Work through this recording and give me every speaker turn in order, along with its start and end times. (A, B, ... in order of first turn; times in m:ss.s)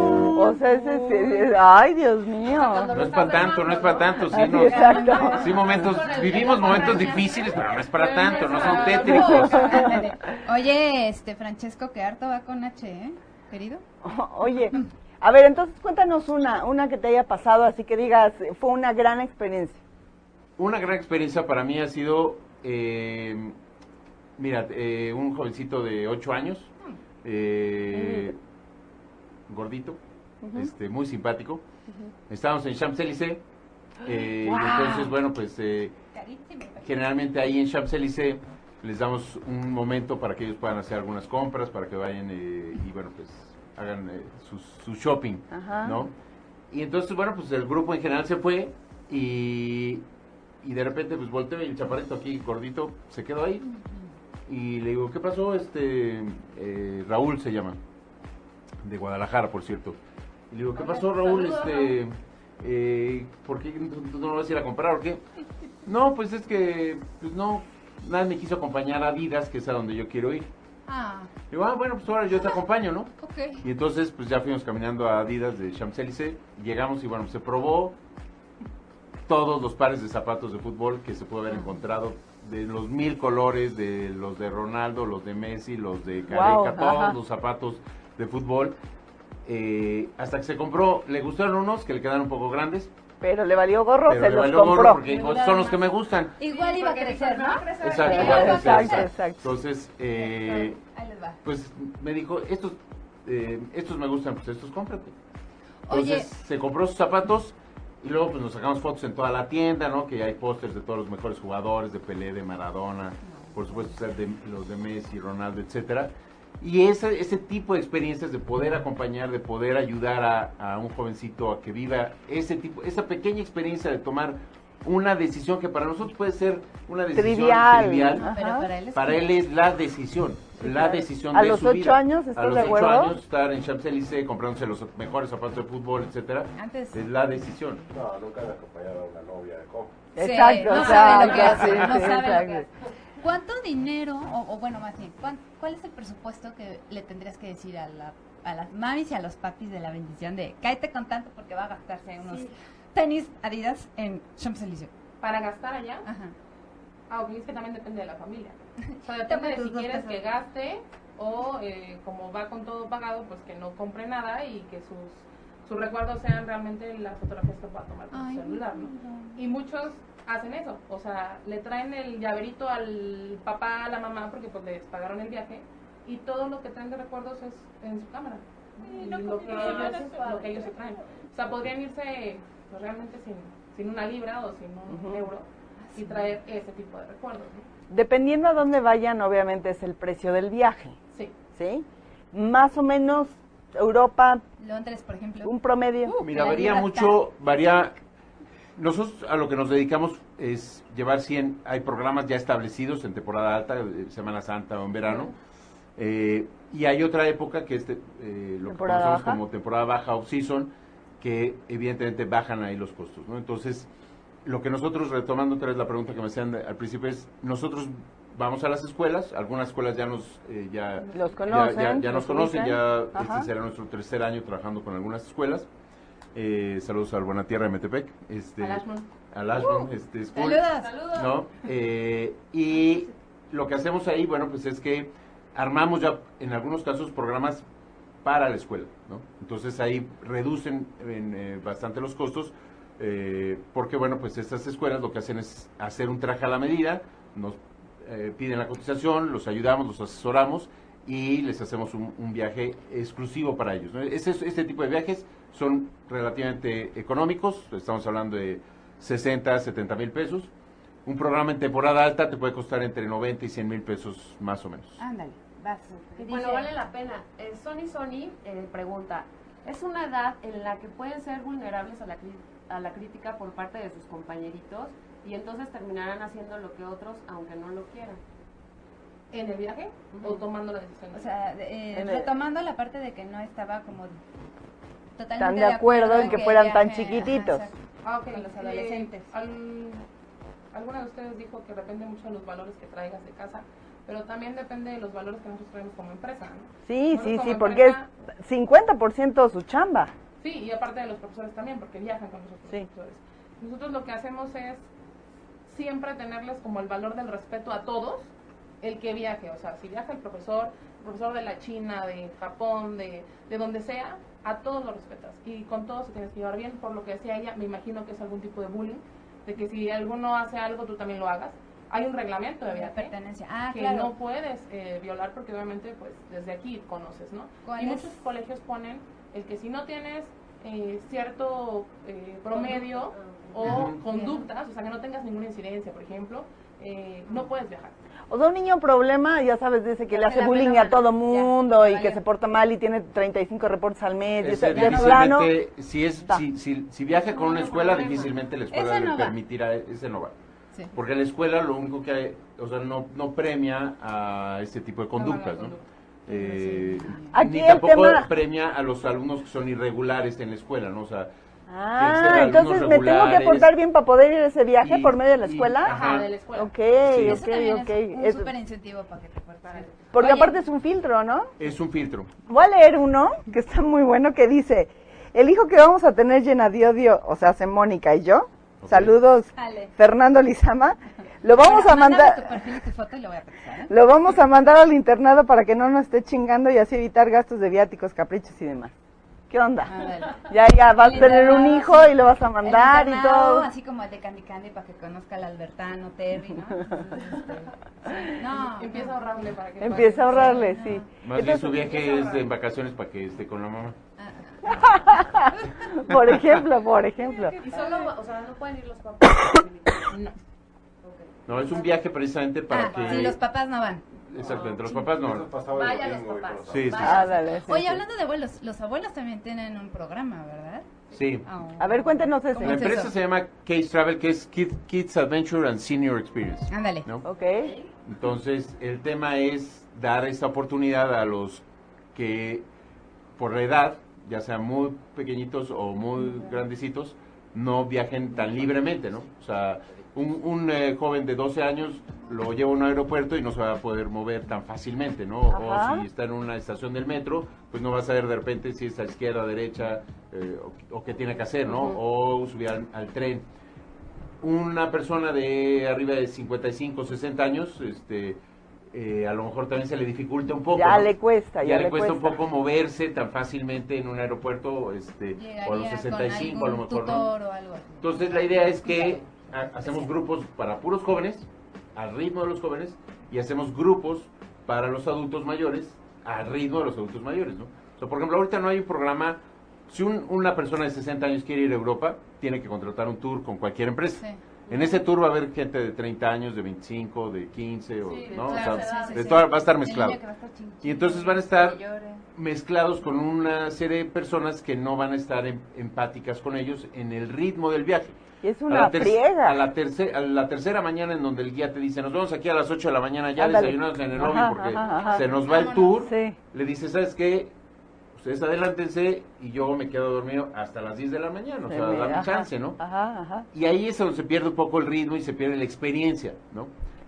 0:00.3-0:03.0 A
0:02.5-0:09.2 B
0:02.9-0:09.8 C
0:04.3-0:05.5 A
0:04.6-0:07.3 D
0:08.2-0:08.9 E
0:08.4-0:13.8 D
0:09.0-0:10.1 A
0:14.0-0:19.8 A
0:20.6-0:23.5 C
0:24.4-0:26.7 C
0:27.2-0:28.4 C
0:27.9-0:28.3 A
0:29.5-0:30.0 C
0:30.4-0:30.7 A
0:30.5-0:31.6 C
0:32.3-0:33.4 C
0:34.0-0:35.9 C
0:34.4-0:35.1 A
0:36.1-0:37.0 D
0:36.8-0:46.1 C
0:45.5-0:46.1 A
0:46.7-0:50.0 C
0:50.6-0:53.7 C
0:54.4-0:57.8 C
0:58.8-1:00.0 C
1:00.5-1:05.2 C
1:00.7-1:02.0 B
1:05.8-1:10.5 C
1:10.9-1:11.3 D
1:11.5-1:18.0 C
1:13.2-1:13.6 D
1:19.3-1:28.8 C
1:21.5-1:21.8 D
1:26.3-1:27.2 A
1:29.4-1:32.9 C
1:33.2-1:35.0 A
1:34.0-1:36.4 C
1:35.2-1:35.6 E
1:36.4-1:39.1 D
1:36.4-1:38.8 B
1:37.8-1:40.8 C
1:38.1-1:39.5 A
1:40.2-1:41.4 D
1:41.4-1:45.1 C
1:45.8-1:46.3 D
1:45.9-2:08.2 C
1:53.4-1:53.8 D
2:07.1-2:08.7 A
2:08.2-2:09.3 D
2:08.9-2:17.8 C
2:10.6-2:13.1 A
2:16.6-2:17.1 D
2:17.9-2:20.0 F
2:20.2-2:22.6 A
2:20.2-2:22.7 D
2:23.2-2:34.9 D
2:35.2-2:36.1 E
2:36.0-2:36.3 D
2:37.1-3:07.7 E
2:38.9-2:40.2 D
2:48.1-2:49.4 D
2:58.8-3:00.6 D
2:58.9-3:01.2 B
3:04.9-3:05.3 A
3:05.8-3:06.4 D
3:07.9-3:11.0 A
3:11.5-3:14.4 A
3:14.6-3:17.2 D
3:15.4-3:16.2 A
3:16.2-3:17.9 C
3:18.8-3:25.3 C
3:26.0-3:33.9 C
3:28.7-3:29.4 A
3:34.4-3:45.7 C
3:41.1-3:43.5 A
3:46.3-3:57.6 C
3:48.6-3:49.1 E
3:50.3-3:51.3 D
3:50.8-3:51.2 B
3:58.2-4:20.5 C
4:21.0-4:25.0 C
4:25.0-4:26.7 D
4:26.2-4:38.2 B
4:39.3-4:41.3 E
4:40.1-4:40.4 B
4:41.1-4:44.2 D
4:41.9-4:42.3 A
4:45.2-4:47.8 D
4:45.4-4:47.6 A
4:48.0-4:50.0 E
4:48.3-4:49.3 D
4:50.7-4:58.1 E
4:56.8-5:00.1 A
5:00.4-5:04.9 E
5:05.6-5:08.3 E
5:08.8-5:23.1 E
5:22.7-5:24.1 D
5:23.7-5:37.9 E
5:27.6-5:28.2 D
5:32.5-5:34.4 B
5:33.6-5:34.0 C
5:34.1-5:34.3 D
5:38.3-5:45.5 A
5:40.2-5:42.2 D
5:44.4-5:50.3 C
5:44.7-5:45.2 D
5:47.1-5:48.4 B
5:48.7-5:49.4 D
5:50.9-6:01.3 C
5:55.2-5:55.8 E
5:56.3-5:57.4 D
5:57.3-5:58.3 A
6:01.7-6:08.5 A
6:01.9-6:03.7 C
6:04.8-6:06.3 C
6:05.8-6:06.7 E
6:07.0-6:07.4 C
6:07.2-6:10.6 D
6:10.1-6:11.5 A
6:11.6-6:12.3 C
6:12.5-6:22.6 A
6:18.8-6:19.2 C
6:19.6-6:19.9 D
6:21.5-6:23.9 D
6:23.9-6:28.9 A
6:29.5-6:33.7 A
6:29.8-6:39.2 D
6:38.6-6:40.7 E
6:39.8-6:41.8 A
6:40.1-6:41.1 D
6:41.2-6:44.0 C
6:41.5-6:42.5 B
6:44.2-6:45.9 D
6:44.8-6:47.6 A
6:47.2-6:48.1 D
6:47.6-6:50.1 B
6:51.0-6:52.0 B
6:51.5-6:53.4 C
6:52.7-6:54.0 D
6:52.8-6:53.2 B
6:54.3-6:55.5 C
6:54.4-6:57.3 F
6:54.4-6:54.8 B
6:55.7-6:57.6 B
6:56.7-6:57.3 C
6:57.0-6:58.0 A
6:57.6-7:00.9 D
7:01.1-7:01.4 C
7:01.4-7:03.1 D
7:01.8-7:03.0 A
7:02.6-7:07.2 C
7:06.7-7:07.0 D
7:07.2-7:07.7 A
7:07.5-7:07.9 B
7:08.0-7:11.6 C
7:12.1-7:12.6 C
7:13.4-7:33.4 C
7:25.5-7:26.1 A
7:34.4-7:38.4 C
7:38.9-7:47.3 C
7:40.7-7:42.4 A
7:45.4-7:50.1 D
7:48.0-8:10.2 C
8:04.7-8:05.0 B
8:08.0-8:09.4 B
8:08.5-8:12.2 D
8:10.8-8:11.8 C
8:12.3-8:27.5 C
8:18.4-8:19.7 A
8:23.4-8:25.3 A
8:24.9-8:25.7 B
8:25.3-8:25.8 D
8:26.0-8:26.4 A
8:28.1-8:32.8 C
8:31.7-8:33.5 A
8:33.5-8:36.7 C